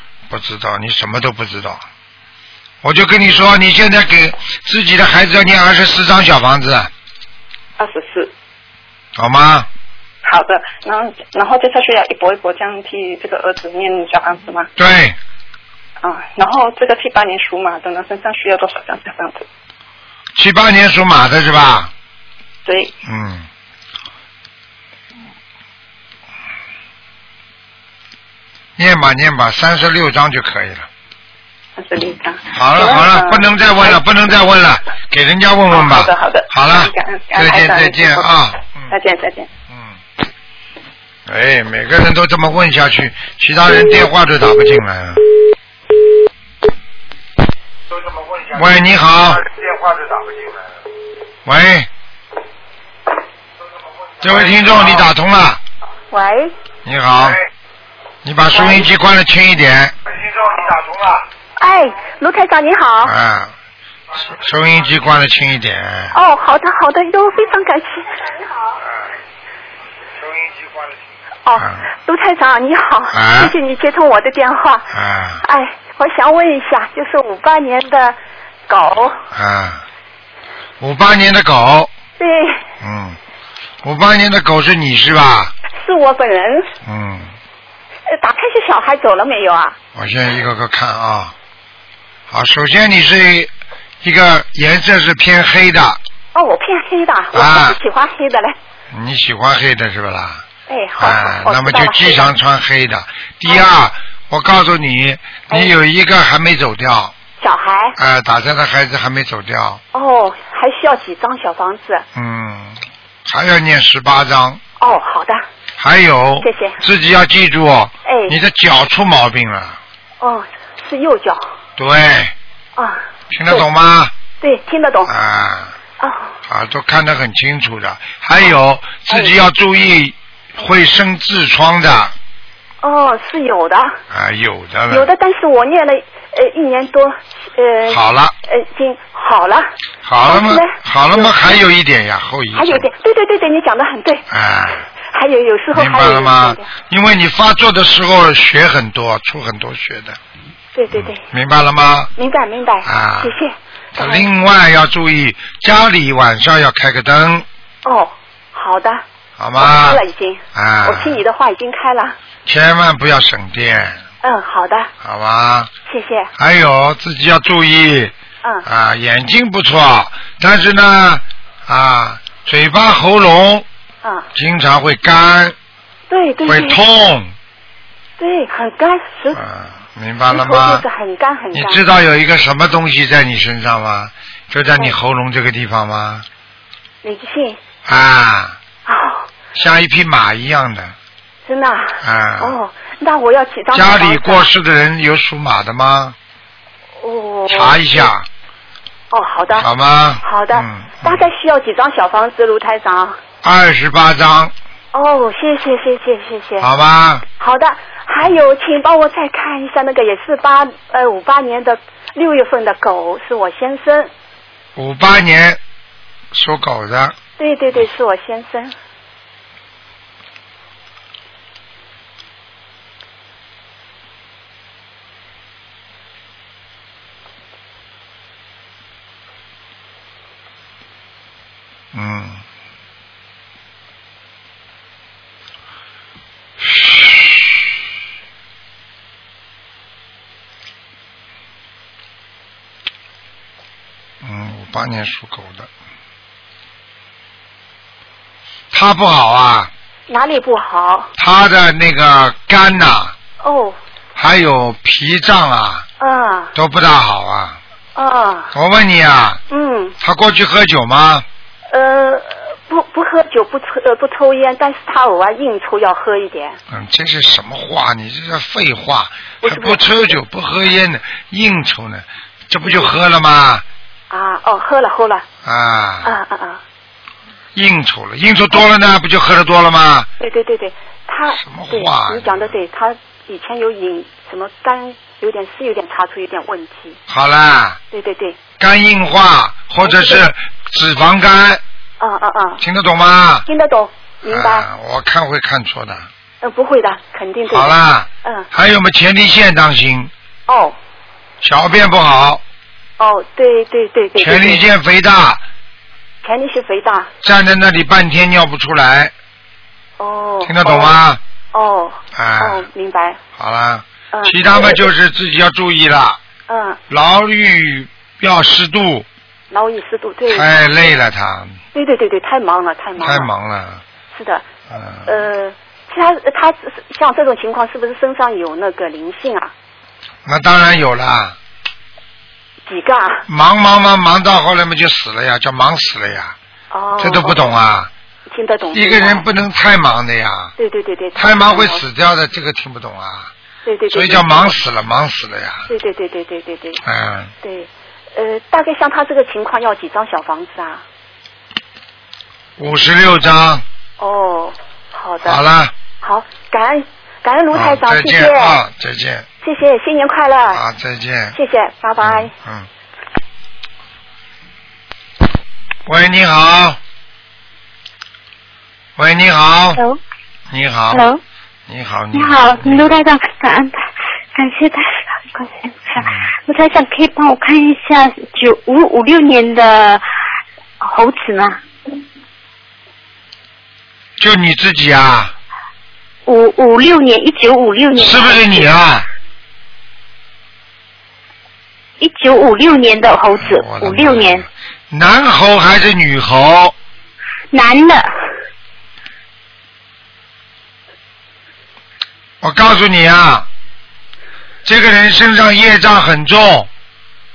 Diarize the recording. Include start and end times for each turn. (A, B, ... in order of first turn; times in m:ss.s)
0:00.3-0:01.8 A
0:02.8-0:06.9 A
0:07.8-0:08.3 B
0:09.2-0:09.7 A
0:10.2-0:14.7 B
0:14.8-0:15.2 A
0:16.0-0:19.4 B
0:20.4-0:21.9 A
0:22.6-0:22.9 B
0:23.0-0:23.5 A
0:28.8-0:30.9 A
0:31.8-0:34.0 B
0:32.5-0:38.9 A
0:35.7-0:38.4 B
0:38.9-0:39.5 B
0:41.3-0:45.3 A
0:48.3-0:50.2 A
0:51.4-0:51.9 A
0:54.2-0:55.6 A
0:56.1-0:56.5 C
0:56.8-0:57.4 A
0:58.2-1:01.2 A
0:58.5-0:58.9 C
1:01.6-1:03.1 C
1:03.0-1:03.5 A
1:04.2-1:06.1 A
1:06.1-1:08.7 C
1:11.4-1:14.9 C
1:11.6-1:11.8 A
1:13.1-1:13.5 A
1:14.9-1:15.4 A
1:15.4-1:18.2 C
1:18.7-1:19.2 C
1:19.3-1:19.8 A
1:20.8-1:21.9 A
1:22.2-1:22.6 C
1:22.8-1:23.2 A
1:23.8-1:25.5 A
1:25.7-1:26.7 C
1:26.8-1:27.3 A
1:28.1-1:29.8 C
1:29.9-1:31.3 A
1:32.3-1:33.5 A
1:34.0-1:36.0 A
1:36.3-1:38.6 C
1:37.3-1:37.8 A
1:38.9-1:40.4 A
1:40.7-1:42.3 C
1:41.0-1:47.1 A
1:45.5-1:45.8 C
1:47.4-1:48.0 C
1:48.0-1:49.8 A
1:49.9-1:52.0 C
1:52.1-1:54.6 A
1:54.8-1:55.4 C
1:55.8-1:59.8 A
1:56.4-1:56.8 C
1:58.0-1:58.4 C
2:00.2-2:01.5 C
2:01.8-2:02.3 A
2:02.8-2:03.7 C
2:03.3-2:04.1 A
2:04.4-2:05.1 C
2:05.0-2:05.8 A
2:06.0-2:06.4 C
2:06.5-2:12.1 A
2:09.1-2:09.4 C
2:12.8-2:14.0 C
2:14.1-2:15.1 A
2:14.9-2:19.7 C
2:17.9-2:18.3 A
2:20.0-2:22.9 A
2:20.2-2:21.6 C
2:22.5-2:24.2 C
2:24.3-2:24.8 A
2:25.0-2:26.7 C
2:25.7-2:30.2 A
2:30.7-2:31.2 C
2:30.9-2:32.1 A
2:32.2-2:34.3 C
2:32.8-2:33.4 A
2:33.9-2:37.4 A
2:37.8-2:39.0 C
2:39.4-2:40.0 A
2:39.6-2:42.2 C
2:40.5-2:41.2 A
2:42.4-2:44.0 A
2:44.2-2:44.9 C
2:45.0-2:45.7 A
2:45.8-2:46.3 C
2:46.4-2:48.1 A
2:48.6-2:53.6 A
2:54.0-2:54.3 C
2:54.3-2:55.5 A
2:56.1-2:56.8 C
2:56.4-2:57.3 A
2:58.2-2:59.4 C
2:59.3-3:00.8 A
3:00.3-3:01.8 C
3:01.5-3:06.2 A
3:07.0-3:07.6 C
3:07.8-3:08.6 A
3:08.8-3:09.3 C
3:09.5-3:10.9 A
3:11.4-3:14.5 C
3:12.0-3:12.6 A
3:13.7-3:16.2 A
3:17.0-3:18.1 C
3:17.5-3:18.3 A
3:19.1-3:19.7 C
3:19.6-3:21.2 A
3:20.2-3:23.2 C
3:23.4-3:24.5 A
3:24.9-3:26.7 C
3:26.6-3:27.2 A
3:27.4-3:34.1 C
3:34.8-3:35.6 A
3:36.3-3:37.1 A
3:37.4-3:38.7 C
3:51.9-3:52.4 A
3:56.6-3:57.4 A
4:04.2-4:05.7 A
4:08.7-4:09.7 A
4:10.1-4:11.1 C
4:11.2-4:13.1 A
4:13.4-4:13.8 C
4:14.2-4:15.8 A
4:16.0-4:16.5 C
4:16.5-4:17.6 A
4:18.0-4:18.5 C
4:18.5-4:19.4 A
4:19.5-4:20.0 C
4:20.0-4:21.2 A
4:21.7-4:26.6 C
4:26.7-4:33.6 A
4:29.4-4:30.2 C
4:32.6-4:32.9 C
4:34.1-4:35.2 C
4:35.4-4:36.1 A
4:36.0-4:36.6 C
4:37.5-4:40.1 A
4:40.2-4:47.0 C
4:41.3-4:42.5 A
4:47.1-4:47.8 A
4:47.9-4:48.4 C
4:48.6-4:51.6 A
4:49.8-4:50.3 C
4:52.0-4:52.6 C
4:52.6-4:53.4 A
4:53.4-4:54.7 C
4:54.2-4:56.1 A
4:56.4-4:58.5 C
4:57.5-5:00.1 A
5:00.5-5:00.8 C
5:01.4-5:02.4 A
5:03.0-5:04.7 C
5:04.2-5:05.4 A
5:06.2-5:07.1 C
5:07.2-5:09.1 A
5:10.0-5:11.0 C
5:10.4-5:11.2 A
5:11.5-5:13.2 C
5:12.1-5:12.7 A
5:13.4-5:16.2 A
5:14.1-5:14.8 C
5:16.5-5:16.8 C
5:16.9-5:19.0 A
5:19.5-5:21.0 C
5:20.3-5:21.6 A
5:21.7-5:23.3 C
5:23.0-5:23.8 A
5:24.1-5:24.4 C
5:24.7-5:25.1 A
5:25.0-5:29.5 C
5:30.2-5:31.4 A
5:32.6-5:33.2 C
5:33.3-5:36.4 A
5:36.7-5:37.6 C
5:37.0-5:37.9 A
5:38.3-5:39.2 C
5:38.7-5:40.5 A
5:40.6-5:41.8 C
5:41.2-5:43.3 A
5:43.6-5:44.5 C
5:43.9-5:45.7 A
5:45.7-5:46.8 C
5:46.8-5:47.3 A
5:47.4-5:50.8 C
5:52.6-5:53.6 A
5:54.0-5:55.4 C
5:55.2-5:55.7 A
5:56.0-5:58.6 C
5:57.5-5:59.3 A
5:59.4-6:00.6 C
6:00.5-6:01.4 A
6:01.3-6:02.3 C
6:02.0-6:02.7 A
6:05.8-6:06.8 A
6:09.0-6:09.8 A
6:10.5-6:11.0 A
6:10.9-6:11.2 D
6:11.7-6:12.9 A
6:12.1-6:20.0 D
6:16.0-6:16.3 A
6:20.8-6:21.6 D
6:24.2-6:25.3 A
6:26.3-6:28.7 D
6:28.0-6:29.1 A
6:32.0-6:34.4 D
6:33.4-6:36.7 A
6:37.5-6:38.1 D
6:42.4-6:43.5 A
6:44.6-6:46.7 A